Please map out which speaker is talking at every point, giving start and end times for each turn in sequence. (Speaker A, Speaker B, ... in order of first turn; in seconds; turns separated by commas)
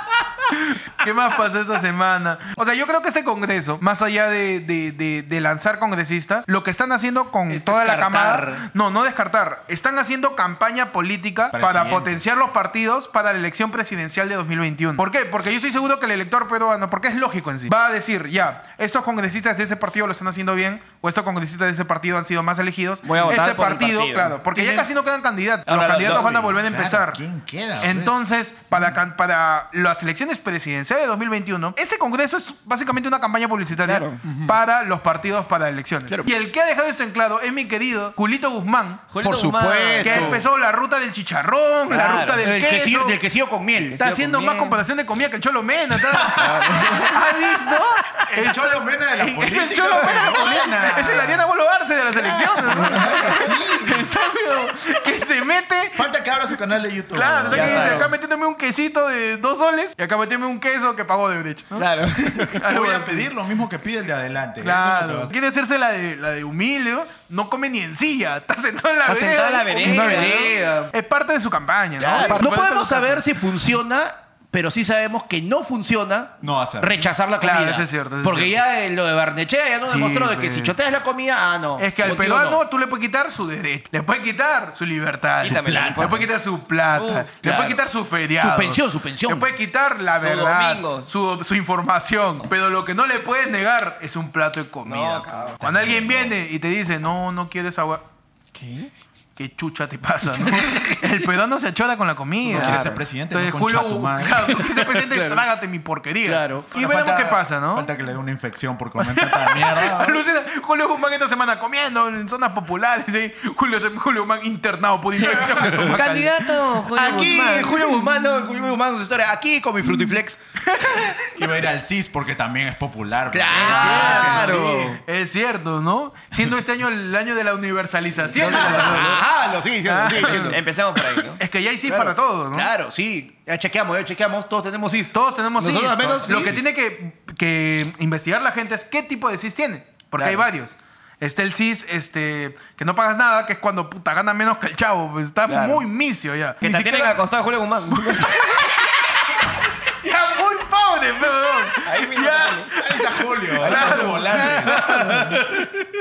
Speaker A: 0.5-27.2, Speaker B: 7.5-8.7, Speaker C: 11.5-12.2, Speaker D: 23.0-24.4, Speaker B: 24.5-24.9, Speaker D: 25.7-26.5, Speaker C: 26.1-28.2, Speaker A: 27.8-39.0, Speaker D: 33.8-34.2, Speaker B: 34.2-34.5, Speaker D: 39.1-40.4, Speaker B: 39.2-40.4, Speaker A: 40.0-43.2, Speaker D: 41.9-42.5, Speaker B: 42.4-44.0, Speaker D: 43.8-44.8, Speaker A: 44.0-56.0, Speaker D: 46.3-47.3, Speaker B: 46.8-47.0, Speaker C: 48.3-51.5, Speaker C: 52.2-54.1, Speaker C: 55.9-58.1, Speaker A: 57.1-63.3, Speaker D: 57.5-58.1, Speaker D: 61.7-62.5, Speaker C: 62.5-65.3, Speaker A: 64.6-73.2, Speaker D: 69.0-70.6, Speaker B: 69.8-70.9, Speaker B: 72.0-82.6, Speaker D: 72.1-72.4, Speaker C: 76.4-77.1, Speaker A: 77.4-78.6, Speaker A: 79.9-80.8, Speaker A: 81.8-98.0, Speaker D: 85.4-86.3, Speaker C: 85.4-86.3, Speaker D: 86.9-87.3, Speaker B: 87.4-87.8, Speaker B: 88.4-89.5, Speaker D: 90.1-91.1, Speaker D: 94.8-95.6, Speaker C: 95.6-96.4, Speaker D: 98.5-98.9, Speaker A: 99.4-107.9, Speaker B: 100.4-101.0, Speaker C: 102.5-104.5, Speaker D: 102.5-103.0, Speaker B: 104.7-105.4, Speaker B: 106.2-106.7, Speaker C: 106.7-110.2, Speaker A: 109.0-116.5, Speaker D: 115.2-118.0, Speaker B: 115.4-116.0, Speaker B: 116.9-120.4, Speaker A: 120.7-121.2, Speaker C: 121.3-124.9, Speaker B: 123.3-125.0, Speaker D: 123.5-124.6, Speaker A: 123.5-129.2, Speaker B: 128.3-131.2, Speaker A: 129.8-130.6, Speaker D: 130.2-131.4, Speaker A: 131.4-132.7, Speaker B: 131.8-136.6, Speaker A: 135.1-146.6, Speaker D: 140.1-140.5, Speaker D: 145.5-145.8, Speaker B: 146.6-147.1, Speaker D: 146.6-148.8, Speaker A: 148.0-155.4, Speaker D: 151.7-152.7, Speaker C: 152.8-155.8, Speaker D: 153.6-154.6, Speaker B: 154.6-155.2